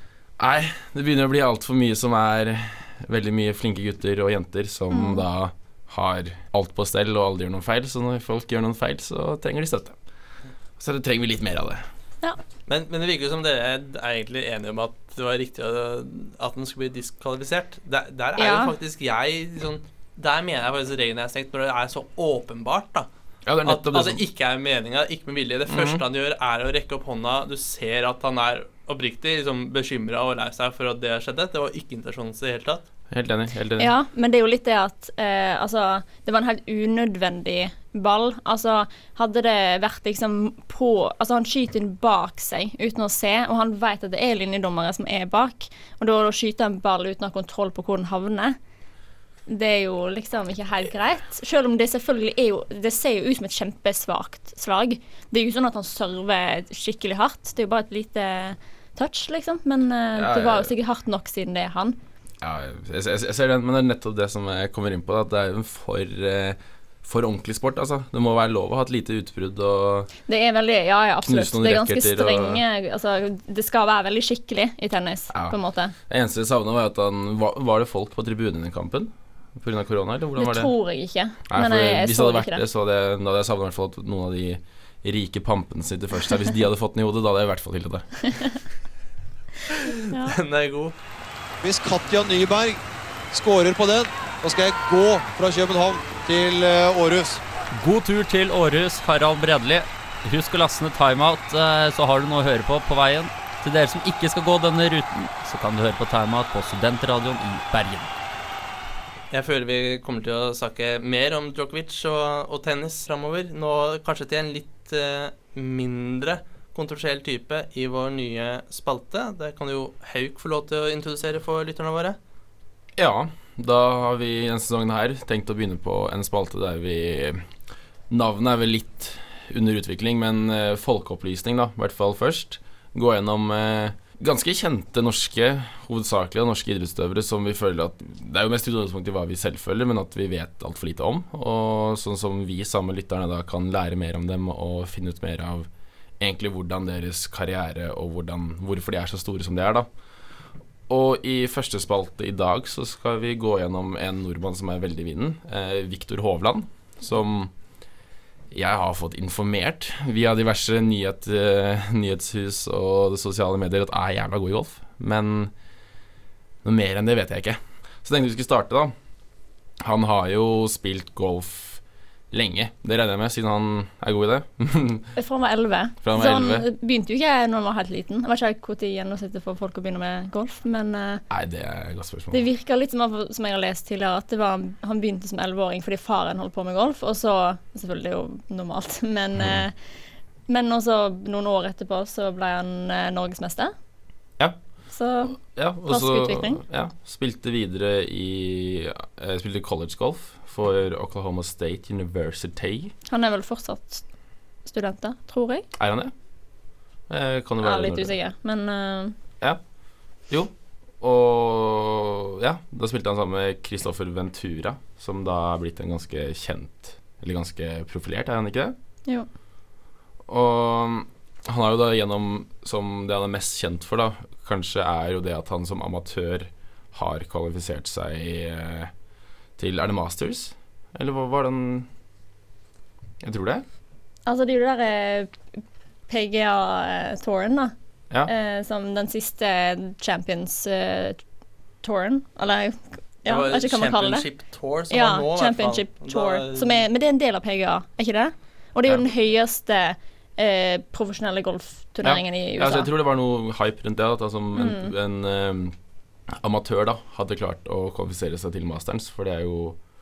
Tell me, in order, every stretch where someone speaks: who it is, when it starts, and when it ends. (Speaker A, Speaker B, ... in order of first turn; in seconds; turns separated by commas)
Speaker A: 0.4-10.0, Speaker B: 4.9-5.2, Speaker A: 10.8-11.8, Speaker C: 12.7-23.1, Speaker B: 18.4-18.7, Speaker A: 23.4-24.2, Speaker C: 23.6-32.8, Speaker A: 25.7-26.0, Speaker A: 33.1-33.9, Speaker B: 33.8-48.6, Speaker B: 49.5-62.0, Speaker A: 60.1-60.7, Speaker A: 62.4-70.1, Speaker B: 70.3-75.9, Speaker A: 71.2-72.6, Speaker A: 75.3-80.7, Speaker B: 80.3-82.6, Speaker A: 81.5-88.5, Speaker C: 90.2-90.9, Speaker D: 91.6-97.4, Speaker E: 97.8-108.1, Speaker C: 109.3-122.2, Speaker A: 123.0-127.5, Speaker A: 128.1-145.7, Speaker A: 146.2-149.9, Speaker A: 150.9-157.5, Speaker A: 158.5-165.5, Speaker A: 166.6-168.9, Speaker A: 169.8-175.1, Speaker B: 175.2-181.2, Speaker A: 176.0-176.7, Speaker A: 181.3-182.4, Speaker B: 182.3-189.8, Speaker A: 189.4-189.6, Speaker B: 190.5-193.7, Speaker B: 194.9-196.6, Speaker A: 195.2-202.9, Speaker B: 203.1-204.1, Speaker B: 204.6-205.7, Speaker A: 205.7-206.1, Speaker A: 207.1-208.1, Speaker B: 207.6-209.2, Speaker A: 210.2-218.7, Speaker A: 220.3-228.9, Speaker A: 229.6-231.9, Speaker A: 233.2-233.6, Speaker B: 234.2-235.3, Speaker B: 236.1-237.7, Speaker B: 238.2-241.2, Speaker B: 241.8-244.2, Speaker C: 243.2-246.8, Speaker B: 244.9-252.9, Speaker A: 252.0-255.8, Speaker B: 254.6-254.9, Speaker A: 256.3-259.8